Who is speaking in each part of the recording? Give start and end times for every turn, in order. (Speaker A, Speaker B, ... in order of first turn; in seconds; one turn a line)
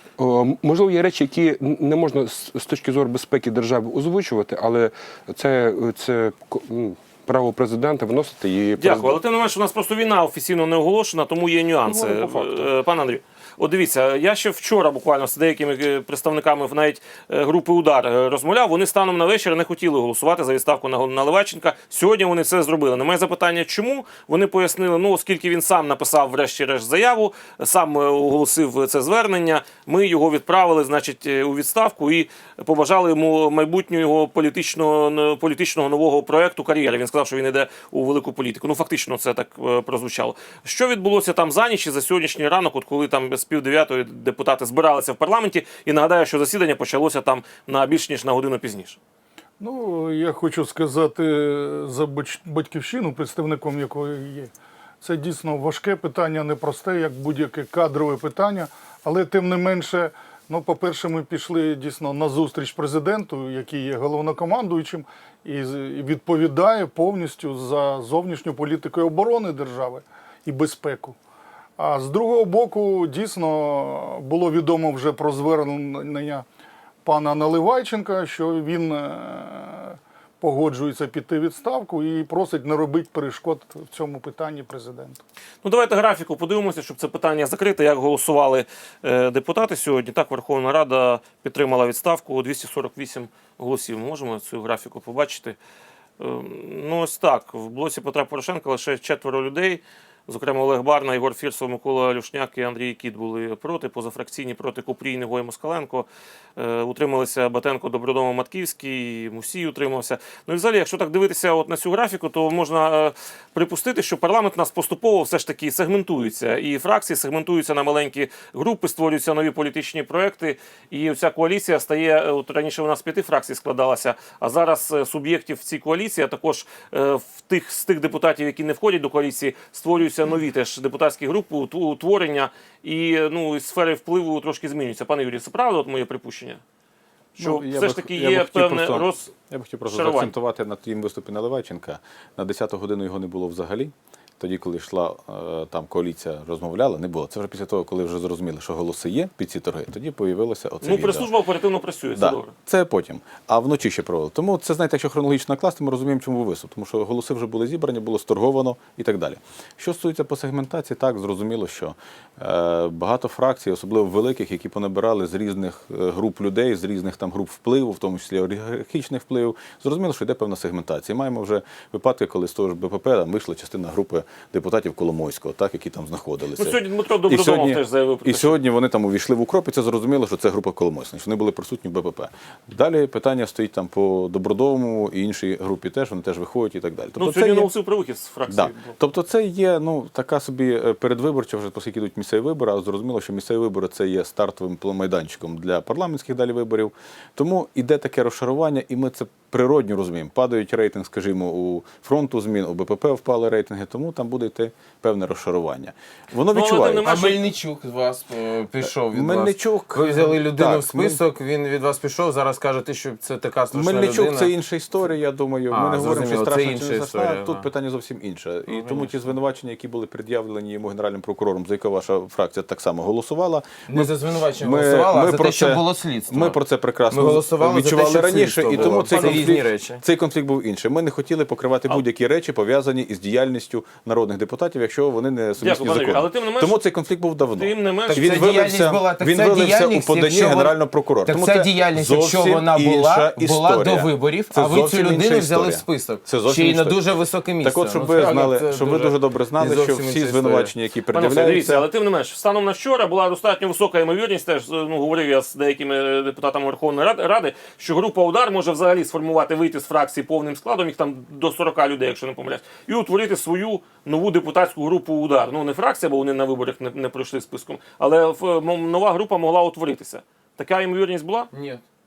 Speaker A: 0.2-9.2
Speaker B: 8.8-49.0
Speaker A: 11.8-12.7
Speaker C: 49.6-71.2
Speaker C: 71.8-76.5
Speaker C: 77.0-85.2
Speaker B: 85.6-95.6
Speaker B: 96.2-136.6
Speaker B: 137.3-140.3
Speaker D: 137.4-151.3
Speaker B: 150.8-152.5
Speaker D: 152.1-187.7
Speaker B: 176.6-178.6
Speaker B: 187.2-188.9
Speaker D: 188.5-207.2
Speaker B: 206.5-207.4
Speaker E: 207.0-214.5
Speaker D: 208.8-211.2
Speaker D: 213.7-251.9
Speaker E: 215.7-217.7
Speaker E: 218.7-219.2
Speaker E: 223.9-230.0
Speaker B: 228.7-229.5
Speaker B: 235.6-236.8
Speaker B: 237.6-238.6
Speaker E: 238.1-250.7
Speaker B: 251.1-271.5
Speaker E: 271.5-271.8